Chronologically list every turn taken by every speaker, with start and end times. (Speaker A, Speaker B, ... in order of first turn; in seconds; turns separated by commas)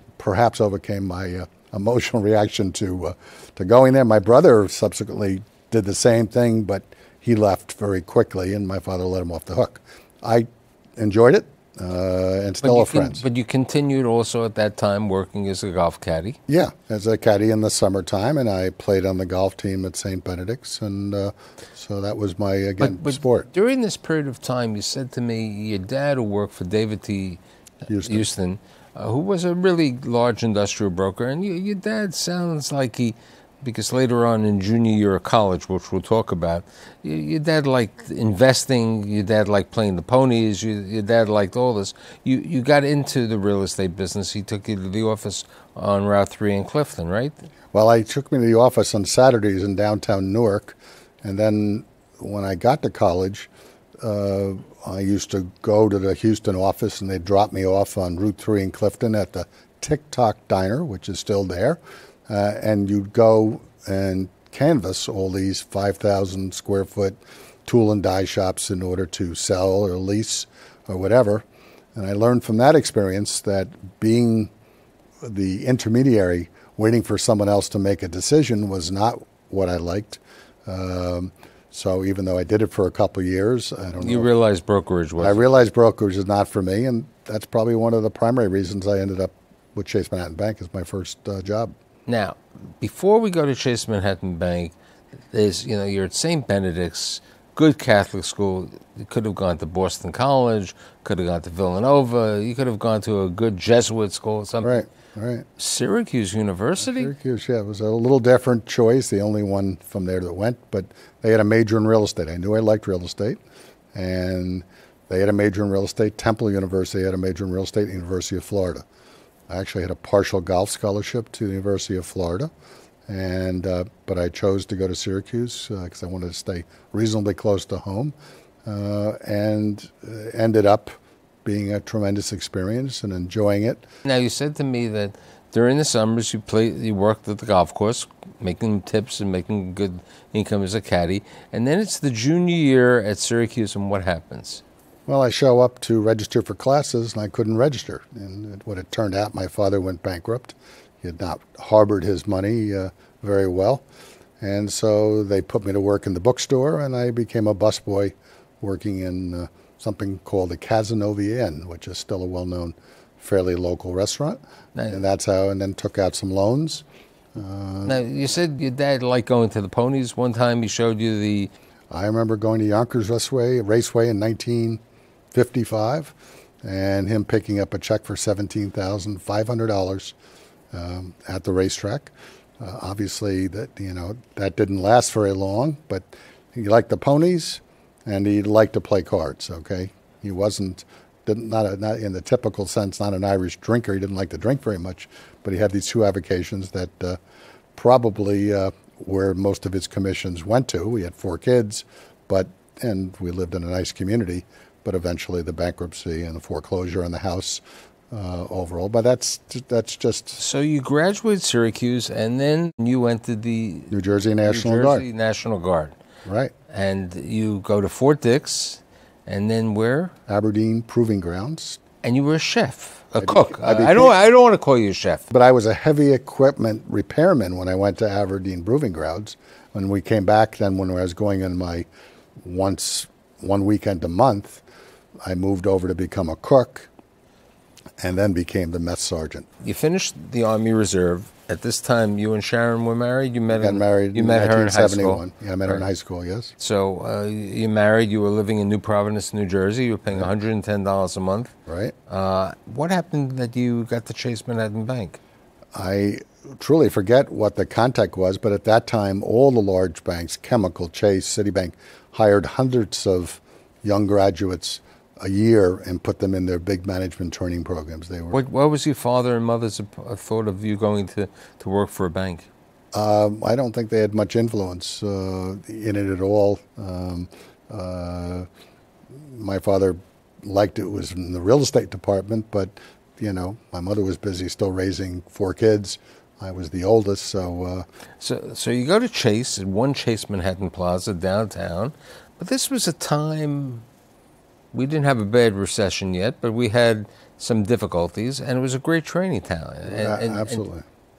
Speaker A: 0.2-13.2, Speaker B: 12.6-16.4, Speaker A: 16.5-23.5, Speaker B: 22.8-27.4, Speaker A: 27.9-28.3, Speaker B: 28.0-47.4, Speaker A: 47.7-53.5, Speaker A: 54.0-74.5, Speaker A: 75.2-84.3, Speaker B: 84.0-85.4, Speaker A: 85.2-91.7, Speaker B: 92.0-94.7, Speaker B: 95.3-104.8, Speaker A: 104.6-105.5, Speaker B: 105.6-107.1, Speaker A: 106.9-113.4, Speaker A: 113.9-118.8, Speaker A: 119.5-122.5, Speaker A: 123.1-128.1, Speaker A: 128.6-133.8, Speaker B: 134.0-144.6, Speaker A: 145.1-153.8, Speaker A: 154.4-168.0, Speaker B: 164.8-165.0, Speaker B: 167.8-171.5, Speaker A: 171.9-174.8, Speaker A: 175.3-180.1, Speaker A: 180.7-197.2, Speaker A: 197.8-210.4, Speaker B: 210.4-213.9, Speaker A: 213.9-215.0, Speaker B: 214.4-215.9, Speaker A: 216.2-216.5, Speaker B: 216.7-220.1, Speaker A: 220.3-221.8, Speaker B: 222.0-225.2, Speaker A: 223.2-224.1, Speaker A: 225.3-231.9, Speaker A: 232.4-234.6, Speaker A: 235.2-236.9, Speaker A: 238.0-239.5, Speaker B: 239.6-245.8, Speaker A: 243.6-246.5, Speaker B: 246.6-251.5, Speaker A: 251.7-251.9, Speaker B: 252.1-255.2, Speaker A: 255.8-268.4, Speaker B: 268.3-272.5, Speaker A: 272.9-278.5, Speaker A: 279.2-287.8, Speaker B: 288.2-293.8, Speaker B: 294.7-300.6, Speaker A: 299.9-300.8